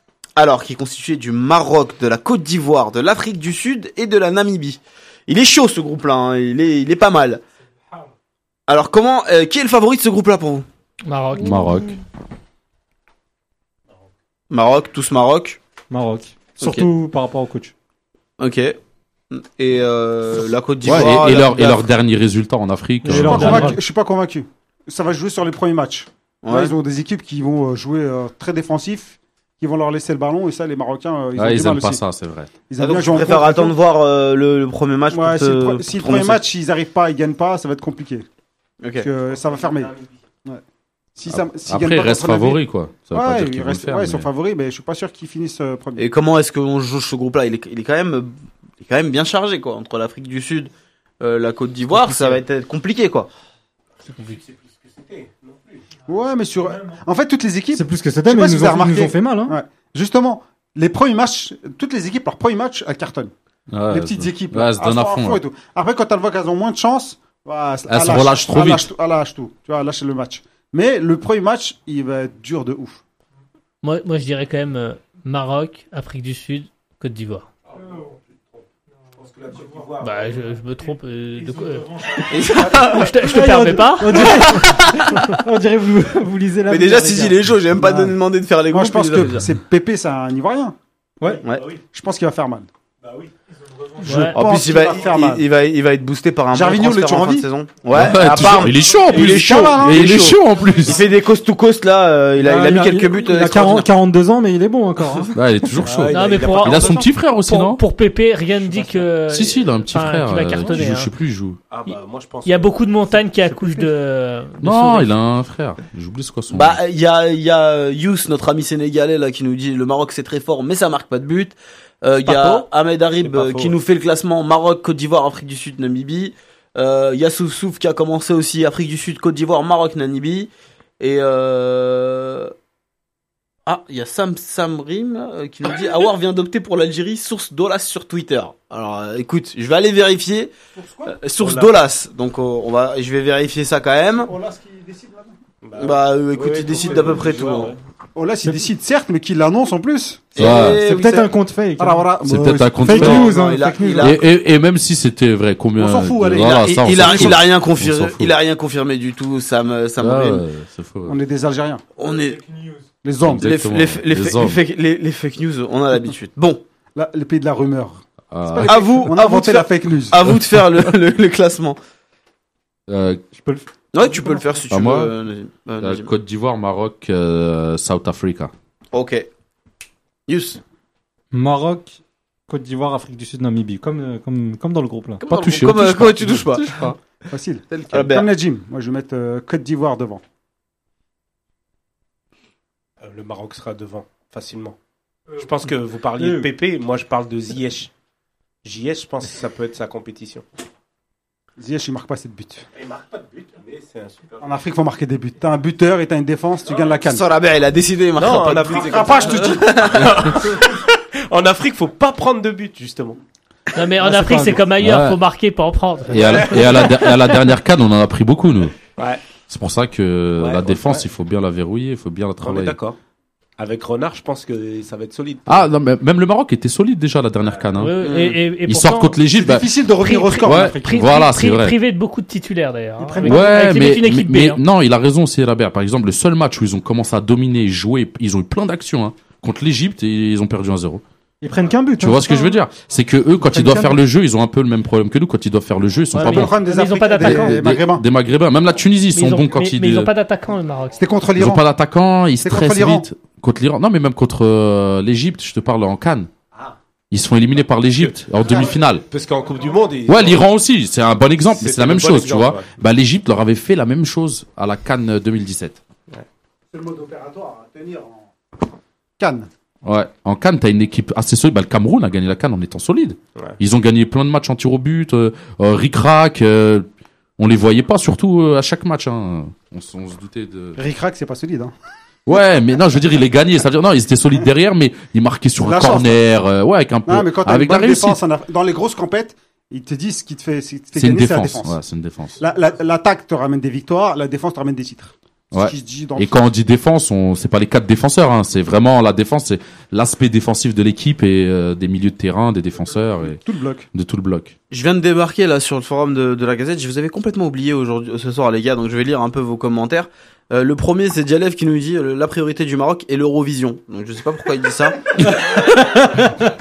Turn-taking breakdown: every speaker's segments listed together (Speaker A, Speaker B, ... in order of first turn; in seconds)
Speaker A: 0.4-7.4, 8.7-10.7, 14.5-15.6, 16.6-16.9, 18.4-18.8, 19.3-21.8, 26.4-26.8, 32.8-36.4, 38.8-39.1, 46.0-53.3, 82.3-83.3, 84.2-85.3, 86.7-89.5, 91.4-91.7, 94.1-103.9, 116.5-130.5, 131.0-132.5, 133.7-140.5, 141.1-144.3, 145.8-147.8, 150.3-151.2, 152.9-154.2, 156.4-160.4, 162.0-162.5, 163.4-166.6, 168.6-171.8, 173.9-176.1, 178.9-179.3, 180.3-180.6, 185.2-186.9, 187.9-188.3, 207.1-210.4, 228.0-228.4, 304.7-315.6
Speaker B: 11.1-11.9, 54.1-54.4, 73.8-77.5, 80.0-84.6, 94.0-94.5, 106.1-111.1, 112.5-115.1, 122.2-122.7, 213.7-217.2, 227.7-229.2, 230.0-234.6, 246.1-247.8, 249.1-251.0
Speaker C: 11.4-12.0, 20.8-23.8, 31.4-32.5, 41.3-44.3, 63.7-65.4, 67.9-68.9, 97.9-101.0, 105.3-107.8, 109.3-111.6, 114.6-116.8, 150.4-150.8, 152.2-153.3, 154.0-158.3, 160.0-161.2, 163.2-164.6, 168.3-169.1, 172.9-173.2, 174.7-175.1, 175.8-178.5, 185.2-187.0, 214.8-215.2, 216.1-218.8, 219.5-222.8, 225.5-228.0, 228.5-229.7, 230.4-231.8, 233.2-241.0, 242.0-246.6, 247.2-250.1, 251.4-256.3, 257.1-259.1, 260.1-265.8, 269.8-276.9, 277.4-280.8, 282.3-288.2, 290.9-292.4, 295.5-303.4, 303.9-304.6
Speaker D: 15.9-17.7, 23.0-23.8, 57.7-59.6, 83.2-87.5, 102.4-105.9, 150.5-152.2, 152.8-154.2, 173.3-173.7, 181.3-185.2, 196.2-196.5, 214.0-214.6, 233.0-233.6, 241.4-242.6, 315.5-316.5
Speaker E: 23.1-32.0, 32.7-33.8, 35.1-38.2, 39.0-40.6, 41.2-42.6, 43.1-46.1, 56.1-63.3, 63.9-73.0, 87.7-88.2, 88.7-90.8, 91.8-92.7, 94.0-95.5, 96.5-97.5, 99.0-100.4, 140.8-141.1, 144.3-145.4, 148.2-153.4, 155.8-157.4, 161.1-161.8, 163.0-163.5, 166.9-170.2, 187.3-190.2, 201.6-202.7, 204.4-207.3, 208.5-210.2, 229.3-230.9, 243.4-244.0, 246.2-248.0, 251.0-251.6, 252.4-253.1, 258.4-258.7, 266.7-268.3, 269.2-269.5, 280.8-281.7, 285.6-286.2, 287.1-291.8, 292.4-296.4, 303.3-303.9
Speaker F: 52.1-52.4, 54.1-55.9, 77.7-80.6, 82.1-82.4, 91.2-91.8, 93.0-93.3, 105.8-107.1, 108.7-109.1, 111.7-113.2, 123.2-123.8, 141.4-141.8, 145.6-147.8, 193.0-194.8, 195.3-197.9, 198.6-200.4, 202.7-204.5, 206.6-207.0, 208.2-213.2, 216.2-216.6, 219.0-219.2, 220.4-221.1, 222.4-223.0, 223.6-225.7, 227.4-227.8, 259.0-260.5, 261.5-262.7